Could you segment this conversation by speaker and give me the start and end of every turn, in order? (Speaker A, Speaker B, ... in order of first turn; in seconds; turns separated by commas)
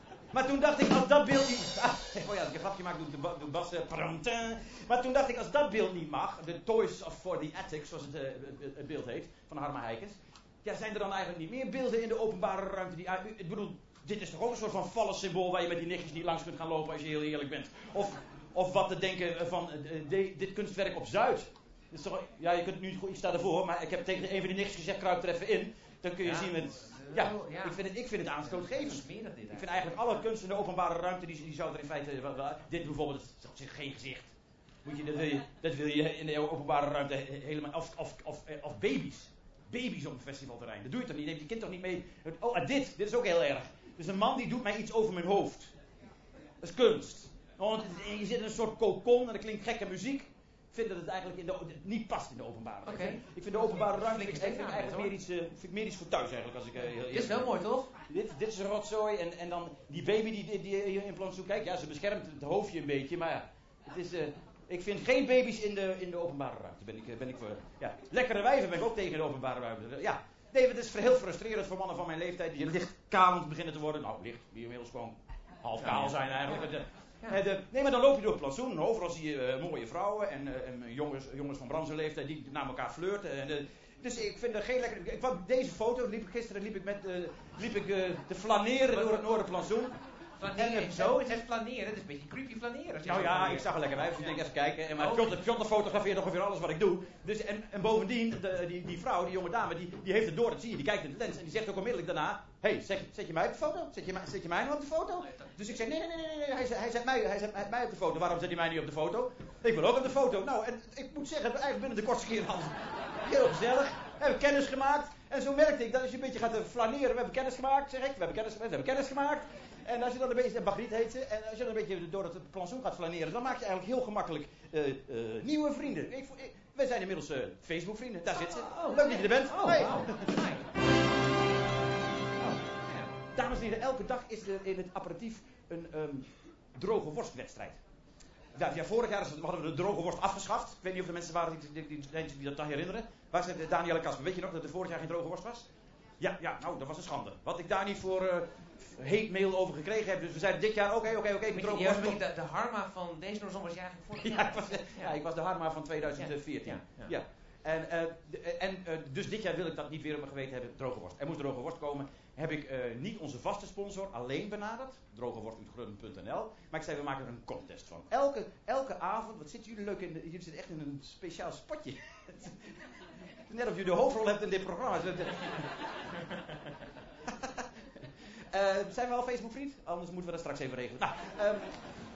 Speaker A: 0.3-45.7, Speaker B: 26.2-30.2, Speaker A: 46.6-57.5, Speaker B: 52.9-55.1, Speaker B: 57.1-57.9, Speaker A: 58.1-89.9, Speaker B: 75.8-76.5, Speaker B: 88.9-89.3, Speaker B: 90.4-94.4, Speaker A: 90.5-91.4, Speaker A: 93.0-130.3, Speaker B: 94.9-95.4, Speaker B: 105.2-105.5, Speaker B: 128.7-130.7, Speaker B: 132.4-133.1, Speaker A: 133.3-137.8, Speaker A: 138.6-145.7, Speaker A: 146.2-152.2, Speaker B: 151.5-155.1, Speaker A: 154.2-172.5, Speaker B: 156.2-157.2, Speaker A: 173.5-175.6, Speaker A: 178.5-181.8